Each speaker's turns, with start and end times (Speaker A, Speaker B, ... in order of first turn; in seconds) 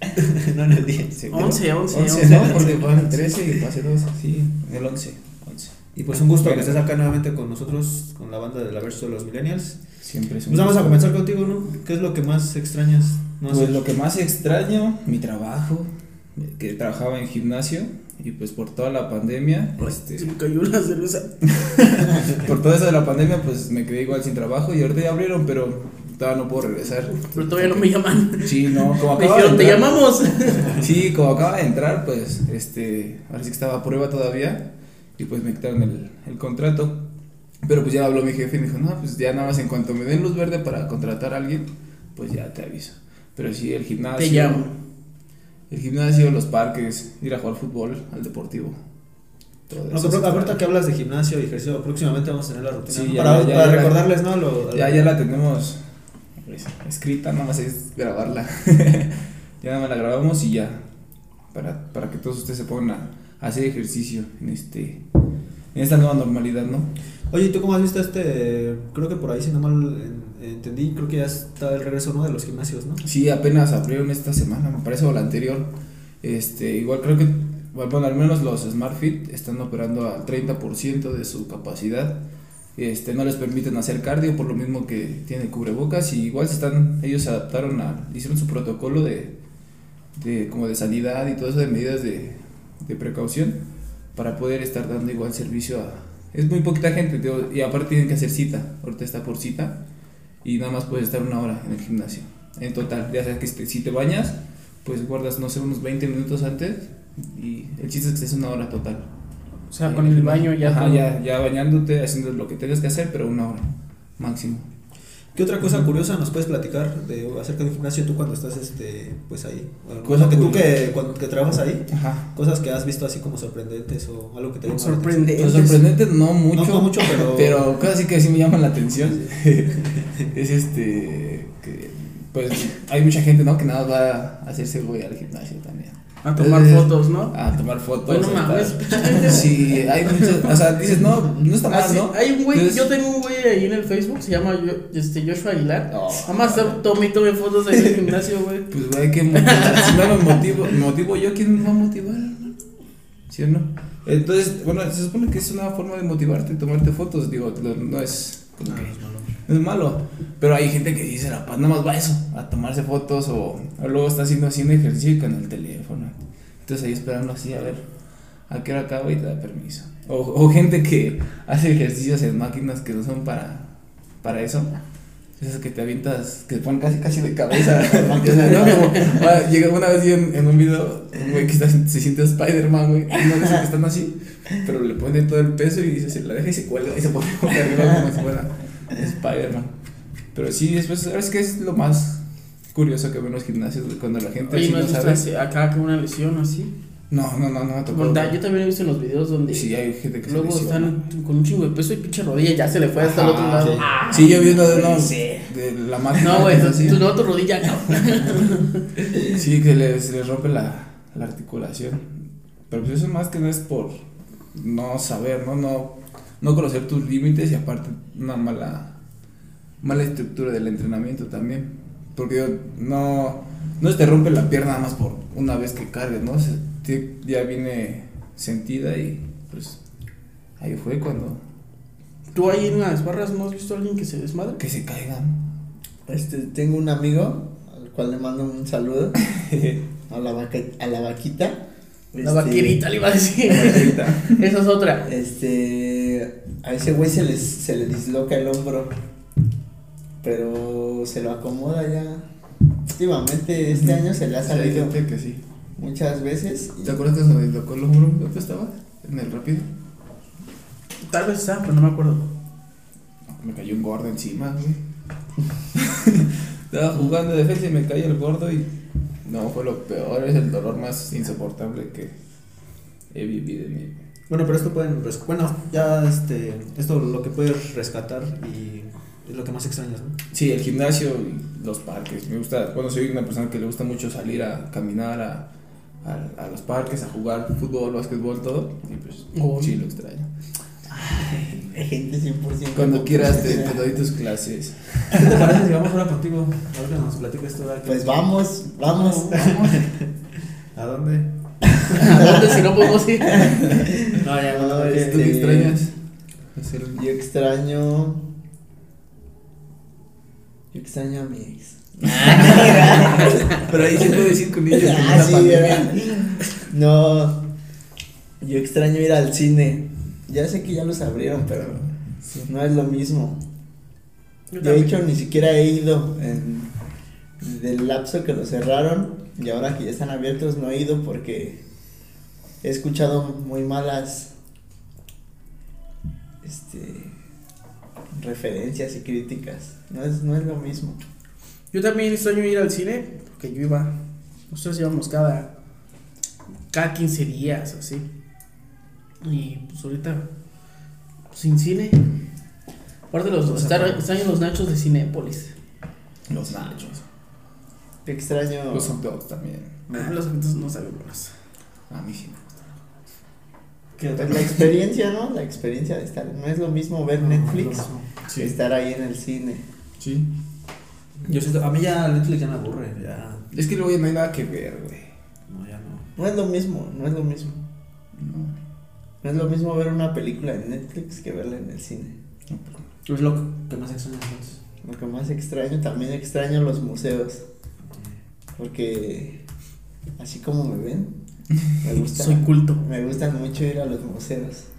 Speaker A: 0.2-1.1, 2.4-3.3, 6.0-9.8, 10.5-13.8, 49.9-55.1, 67.3-73.0, 115.3-125.5, 126.5-127.7, 158.7-159.3, 203.5-204.0, 274.3-280.2, 295.1-298.3, 299.3-300.1, 300.8-302.4, 304.2-305.4, 306.6-307.0, 353.5-354.1, 364.0-364.7, 367.2-368.1, 371.3-373.4, 375.5-376.1, 383.1-384.6
Speaker B: 1.1-6.8, 10.0-11.1, 13.5-20.3, 21.6-30.0, 30.7-34.6, 35.2-37.0, 37.6-44.7, 45.7-48.8, 49.7-50.6, 52.9-54.0, 54.7-55.8, 56.4-60.8, 61.5-65.0, 65.7-66.9, 73.0-75.7, 76.2-82.2, 82.8-89.3, 90.2-93.6, 94.2-99.8, 100.4-109.1, 109.8-114.7, 120.0-120.8, 121.9-122.3, 125.4-142.9, 145.9-146.8, 148.7-152.5, 153.3-167.8, 168.5-174.7, 175.4-189.7, 190.3-192.2, 192.7-195.2, 197.1-198.4, 199.5-201.0, 203.0-207.0, 209.2-212.1, 212.7-213.9, 214.6-218.9, 219.8-229.8, 230.6-231.4, 234.6-235.4, 239.2-239.8, 243.5-244.4, 253.7-255.4, 256.8-259.7, 263.3-264.8, 265.8-268.7, 269.2-272.1, 273.1-274.0, 280.3-285.5, 286.0-290.3, 290.9-291.7, 292.7-295.6, 298.9-299.9, 304.9-305.9, 312.1-315.9, 321.6-322.5, 356.3-357.0, 358.7-359.8, 361.9-362.4, 370.0-370.3, 373.5-375.1, 378.2-378.5, 382.5-382.8
Speaker C: 1.3-2.9, 19.8-21.3, 27.2-30.8, 44.2-44.7, 109.7-111.1, 124.7-125.8, 136.2-137.3, 138.1-140.5, 141.7-148.7, 149.4-150.1, 194.5-196.7, 197.9-199.7, 200.3-204.8, 206.2-208.8, 232.3-234.6, 242.2-245.1, 261.0-262.3, 289.3-289.8, 302.0-303.6, 324.5-325.0, 341.7-343.9, 344.5-345.5, 346.7-348.1, 349.2-350.2, 351.3-352.0, 353.1-355.5, 359.9-361.3, 392.1-392.8
Speaker D: 177.7-179.2, 187.7-188.1, 203.9-205.4, 236.1-239.2, 240.1-241.6, 242.1-242.8, 245.1-248.9, 250.2-252.3, 252.9-254.9, 255.8-257.0, 291.7-293.8, 297.9-299.5, 303.4-305.8, 306.9-308.2, 310.7-317.4, 318.4-321.8, 322.5-323.4, 324.6-326.7, 327.4-331.6, 332.6-334.3, 336.4-337.2, 338.1-341.0, 358.1-358.9, 359.9-360.1, 364.2-369.6, 376.2-377.6, 379.2-382.1, 384.8-387.4, 388.6-389.4, 390.2-391.2, 391.8-394.7